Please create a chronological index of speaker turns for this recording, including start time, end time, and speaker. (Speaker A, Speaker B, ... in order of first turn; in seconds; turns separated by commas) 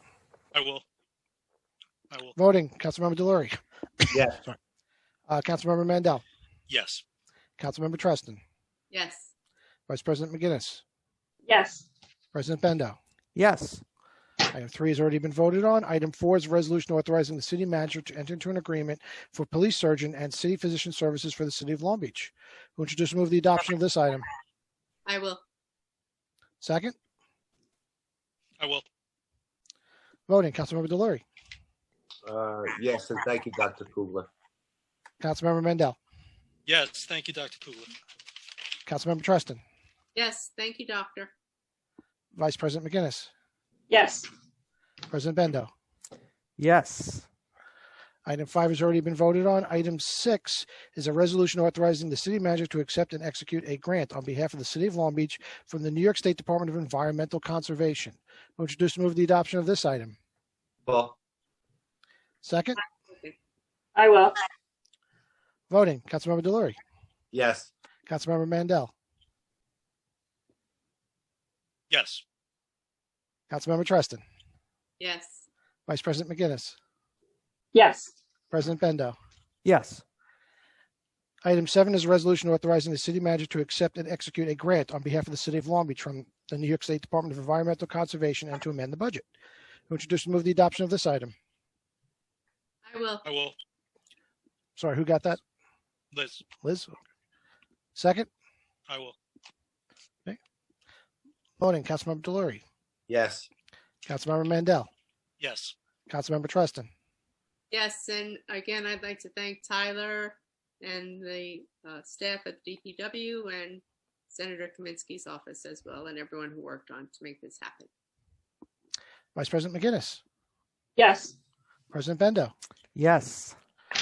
Speaker A: 0.5-0.8, Speaker B: 2.4-3.6, Speaker C: 4.1-4.4, Speaker B: 4.1-4.6, Speaker B: 5.3-6.2, Speaker A: 6.7-7.0, Speaker B: 7.6-8.4, Speaker D: 8.9-9.3, Speaker B: 9.9-10.8, Speaker E: 11.5-11.8, Speaker B: 12.3-13.0, Speaker F: 13.3-13.8, Speaker B: 14.5-24.3, Speaker D: 25.1-25.4, Speaker B: 26.6-27.0, Speaker A: 28.6-28.9, Speaker B: 30.3-31.2, Speaker C: 32.2-34.3, Speaker B: 35.2-36.0, Speaker A: 36.7-37.9, Speaker B: 38.9-39.6, Speaker D: 40.2-41.3, Speaker B: 42.4-43.3, Speaker E: 43.9-44.3, Speaker B: 45.1-45.7, Speaker F: 46.6-47.3, Speaker B: 48.3-60.2, Speaker C: 60.9-61.2, Speaker B: 62.4-62.8, Speaker E: 64.0-64.4, Speaker B: 65.7-66.8, Speaker C: 67.3-67.7, Speaker B: 68.1-68.9, Speaker A: 71.9-72.2, Speaker B: 73.5-74.2, Speaker D: 75.0-75.5, Speaker B: 75.9-76.8, Speaker E: 77.7-78.1, Speaker B: 78.5-79.2, Speaker F: 79.7-80.0, Speaker B: 81.5-89.2, Speaker B: 89.9-91.3, Speaker D: 92.9-93.2, Speaker A: 93.2-93.6, Speaker B: 94.8-95.4, Speaker A: 96.1-96.4, Speaker B: 96.6-97.0, Speaker B: 98.0-98.3, Speaker A: 98.9-99.2, Speaker B: 101.6-102.6, Speaker C: 103.1-103.5, Speaker B: 104.1-104.9, Speaker A: 105.4-105.8, Speaker B: 106.1-106.9, Speaker D: 107.7-117.9, Speaker B: 119.3-120.2, Speaker E: 121.0-121.3, Speaker B: 121.9-122.5, Speaker F: 123.0-123.6